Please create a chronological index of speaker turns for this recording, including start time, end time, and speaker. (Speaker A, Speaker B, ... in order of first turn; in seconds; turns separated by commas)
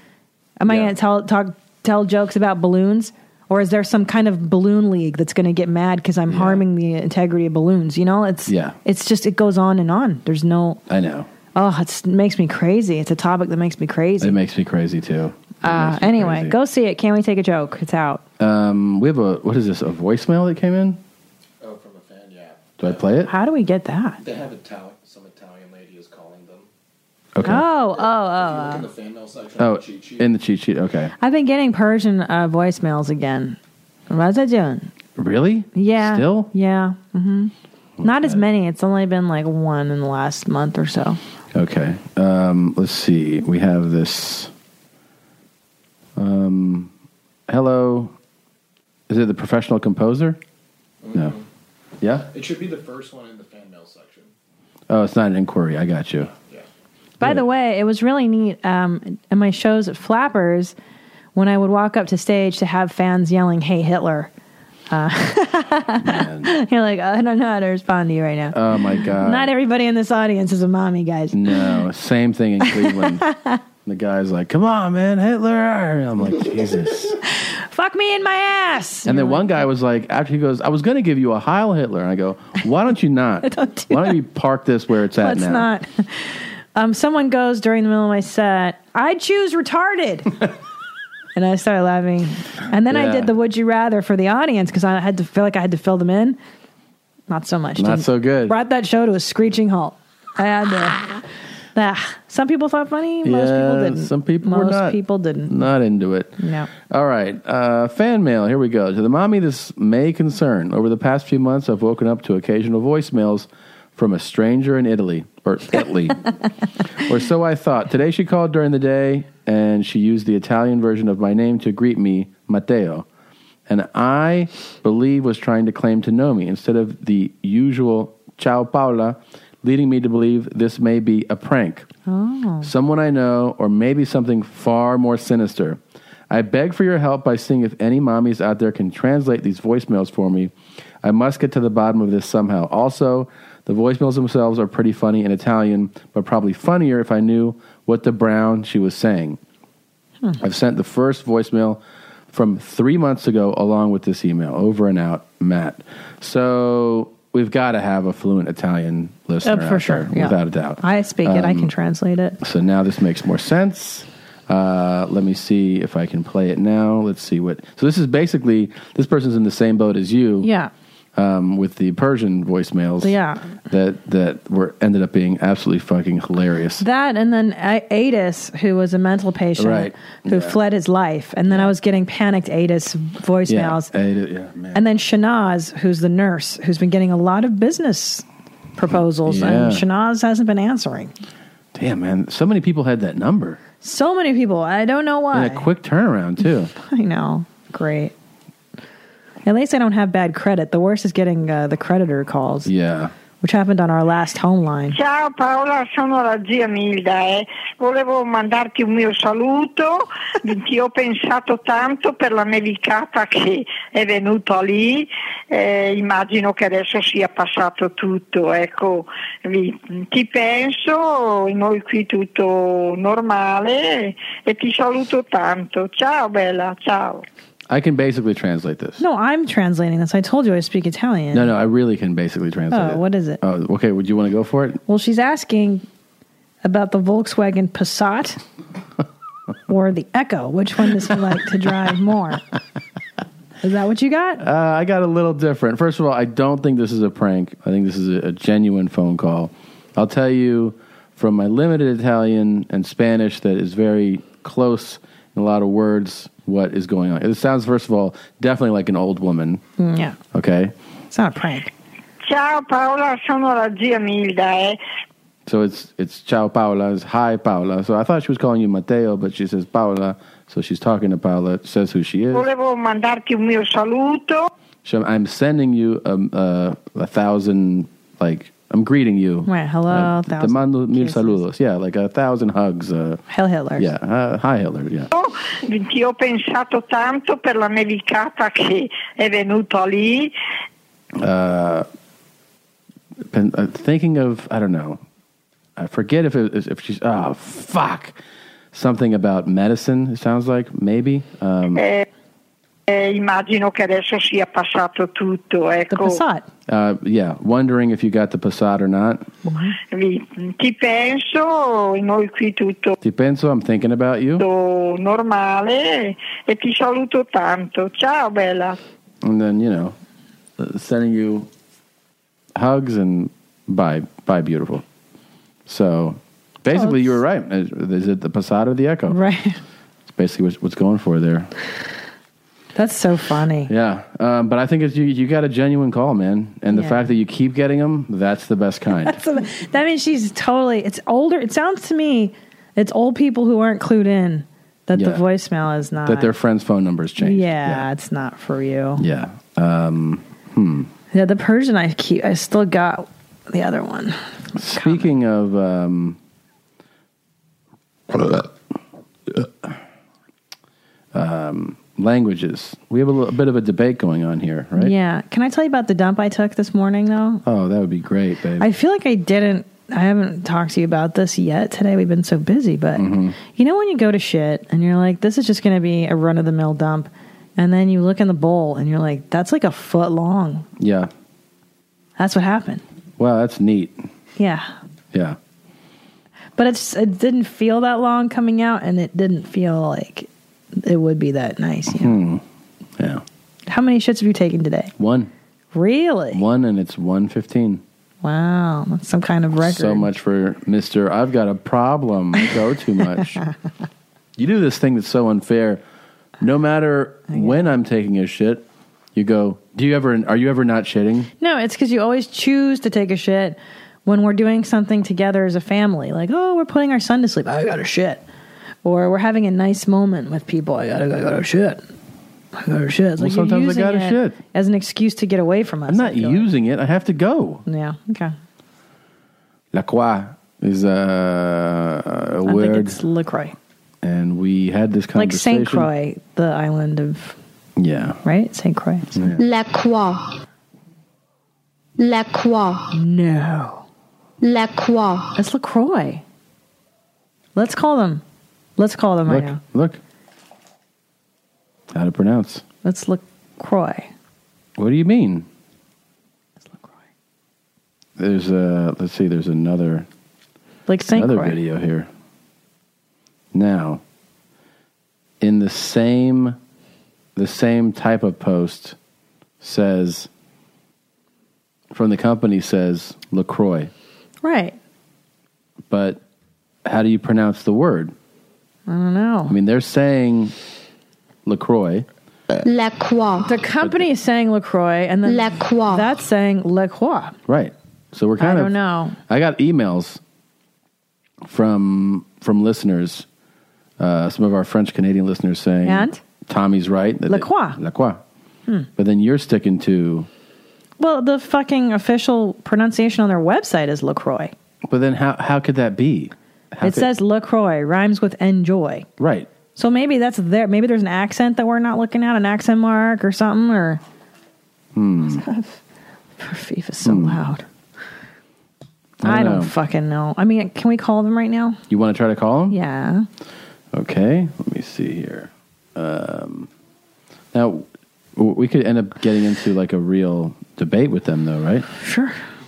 Speaker A: 0.6-10.8, Speaker B: 6.3-6.6, Speaker B: 8.5-8.8, Speaker B: 10.9-11.3, Speaker A: 11.5-14.4, Speaker B: 14.2-16.6, Speaker A: 15.6-18.2, Speaker B: 18.4-21.0, Speaker C: 21.6-23.0, Speaker B: 22.8-23.3, Speaker A: 23.3-24.2, Speaker C: 24.2-26.7, Speaker B: 27.3-27.6, Speaker A: 27.4-28.8, Speaker C: 27.9-30.3, Speaker B: 29.6-31.1, Speaker A: 31.2-33.6, Speaker A: 34.1-34.9, Speaker B: 35.2-36.5, Speaker A: 35.7-41.2, Speaker B: 38.0-38.4, Speaker B: 41.5-44.5, Speaker B: 46.2-46.9, Speaker B: 47.5-48.1, Speaker B: 49.1-50.4, Speaker C: 51.0-51.4, Speaker B: 52.0-52.3, Speaker C: 52.3-54.3, Speaker B: 54.9-56.3, Speaker C: 56.3-56.6, Speaker A: 57.2-60.7, Speaker A: 61.3-64.3, Speaker A: 64.9-71.8, Speaker B: 66.0-66.5, Speaker B: 68.5-69.5, Speaker B: 71.3-73.3, Speaker A: 72.6-73.6, Speaker B: 73.8-77.2, Speaker A: 77.2-79.5, Speaker B: 79.0-85.7, Speaker A: 83.4-84.1, Speaker A: 85.2-90.4, Speaker A: 91.3-96.4, Speaker B: 92.9-93.3, Speaker A: 97.3-101.2, Speaker B: 97.8-98.5, Speaker A: 101.7-105.6, Speaker B: 103.2-116.3, Speaker A: 106.4-106.7, Speaker B: 117.0-123.0, Speaker B: 123.7-131.9, Speaker A: 132.1-132.7, Speaker B: 132.6-135.8, Speaker B: 136.3-140.5, Speaker B: 141.0-149.4, Speaker B: 150.4-151.8, Speaker B: 152.3-161.7, Speaker A: 159.4-162.4, Speaker B: 162.4-170.5, Speaker A: 170.4-170.7, Speaker B: 171.2-173.1, Speaker A: 173.0-173.5, Speaker B: 173.7-176.8, Speaker A: 176.8-183.9, Speaker B: 179.6-180.6, Speaker B: 181.5-181.7, Speaker B: 183.5-184.8, Speaker A: 184.7-188.2, Speaker A: 188.8-191.1, Speaker B: 189.2-189.8, Speaker B: 191.7-193.6, Speaker A: 193.8-195.7, Speaker B: 195.3-196.7, Speaker A: 196.7-198.1, Speaker A: 199.4-202.7, Speaker B: 202.7-203.1, Speaker A: 203.4-205.0, Speaker D: 204.9-227.2, Speaker B: 227.7-229.0, Speaker A: 229.0-231.5, Speaker B: 231.3-234.8, Speaker A: 232.7-233.4, Speaker A: 234.9-235.8, Speaker A: 236.6-238.4, Speaker A: 239.7-242.4, Speaker A: 243.6-244.4, Speaker B: 244.4-259.6, Speaker A: 259.8-260.2, Speaker B: 260.3-260.7, Speaker A: 261.1-261.7, Speaker D: 262.3-264.8, Speaker B: 265.5-272.5, Speaker D: 272.3-274.5, Speaker B: 274.8-283.2, Speaker A: 279.4-281.4, Speaker A: 283.3-283.9, Speaker B: 283.8-285.1, Speaker D: 285.1-290.3, Speaker B: 291.1-291.9, Speaker B: 293.3-295.0, Speaker B: 295.8-298.2, Speaker B: 298.7-301.8, Speaker D: 301.8-302.1, Speaker D: 302.9-306.2, Speaker A: 305.9-306.5, Speaker B: 306.7-309.3, Speaker A: 309.4-309.8, Speaker D: 309.9-312.9, Speaker B: 313.0-314.4, Speaker D: 314.4-318.8, Speaker B: 319.2-319.9, Speaker B: 320.6-321.5, Speaker B: 322.5-324.8, Speaker B: 325.7-329.2, Speaker A: 326.7-327.2, Speaker A: 329.1-329.6, Speaker B: 330.1-331.5, Speaker A: 332.7-333.7, Speaker B: 333.7-339.1, Speaker A: 336.7-337.1, Speaker A: 338.9-346.3, Speaker B: 344.9-345.2, Speaker B: 346.1-347.9, Speaker A: 347.2-349.0, Speaker B: 349.0-350.9, Speaker A: 351.1-355.1, Speaker B: 354.6-356.2, Speaker B: 358.1-358.5, Speaker B: 359.3-359.7, Speaker B: 361.1-364.9, Speaker A: 364.8-367.4, Speaker B: 367.4-368.7, Speaker A: 368.6-380.7, Speaker B: 372.9-373.4, Speaker B: 380.8-381.1, Speaker A: 382.2-382.8, Speaker B: 383.2-384.1, Speaker A: 384.4-384.7, Speaker A: 386.6-392.2, Speaker B: 391.9-392.4, Speaker B: 393.0-393.2, Speaker A: 393.7-394.9, Speaker B: 395.0-395.3, Speaker A: 395.7-396.4, Speaker B: 396.3-397.8, Speaker A: 398.2-400.1, Speaker B: 399.6-403.4, Speaker B: 404.4-405.8, Speaker B: 406.4-411.3, Speaker A: 407.3-407.7, Speaker A: 411.4-418.2, Speaker A: 418.8-421.9, Speaker A: 422.5-426.5, Speaker B: 423.2-424.4, Speaker B: 425.9-427.6, Speaker A: 427.6-428.3, Speaker B: 429.7-433.0, Speaker A: 432.4-433.6, Speaker B: 434.0-435.9, Speaker A: 435.1-437.4, Speaker B: 437.8-438.2, Speaker A: 438.2-439.2, Speaker B: 439.1-439.4, Speaker E: 439.4-440.2, Speaker E: 442.0-442.9, Speaker A: 442.9-443.9, Speaker E: 444.4-445.3, Speaker A: 445.4-446.2, Speaker A: 447.5-448.2, Speaker A: 448.8-449.6, Speaker B: 449.3-450.0, Speaker B: 451.9-452.6, Speaker A: 452.8-454.1, Speaker B: 454.8-455.5, Speaker A: 456.6-456.9, Speaker B: 458.2-460.1, Speaker A: 460.9-461.6, Speaker B: 461.1-462.1, Speaker B: 463.5-464.0, Speaker B: 465.4-466.6, Speaker B: 467.4-468.9, Speaker B: 469.6-470.3, Speaker B: 471.9-473.9, Speaker A: 474.4-474.8, Speaker B: 475.9-476.2, Speaker B: 476.9-478.1, Speaker A: 478.9-479.5, Speaker B: 479.5-480.5, Speaker B: 481.4-482.1, Speaker E: 482.6-483.5, Speaker A: 483.4-487.4, Speaker B: 483.8-484.1, Speaker E: 485.2-486.1, Speaker B: 487.5-488.7, Speaker A: 488.4-489.2, Speaker B: 489.3-490.2, Speaker B: 491.4-493.3, Speaker B: 494.0-498.2, Speaker A: 495.8-496.2, Speaker A: 497.3-497.8, Speaker B: 499.0-500.3, Speaker A: 501.0-504.5, Speaker B: 504.9-507.1, Speaker A: 506.8-509.1, Speaker B: 509.2-509.5, Speaker A: 509.8-514.0, Speaker B: 514.9-515.4, Speaker A: 515.3-515.8, Speaker A: 516.4-517.6, Speaker B: 517.0-517.4, Speaker B: 519.2-519.7, Speaker A: 519.2-521.8, Speaker B: 521.9-522.8, Speaker A: 522.7-523.3, Speaker B: 523.9-526.7, Speaker B: 527.5-531.9, Speaker A: 532.0-532.4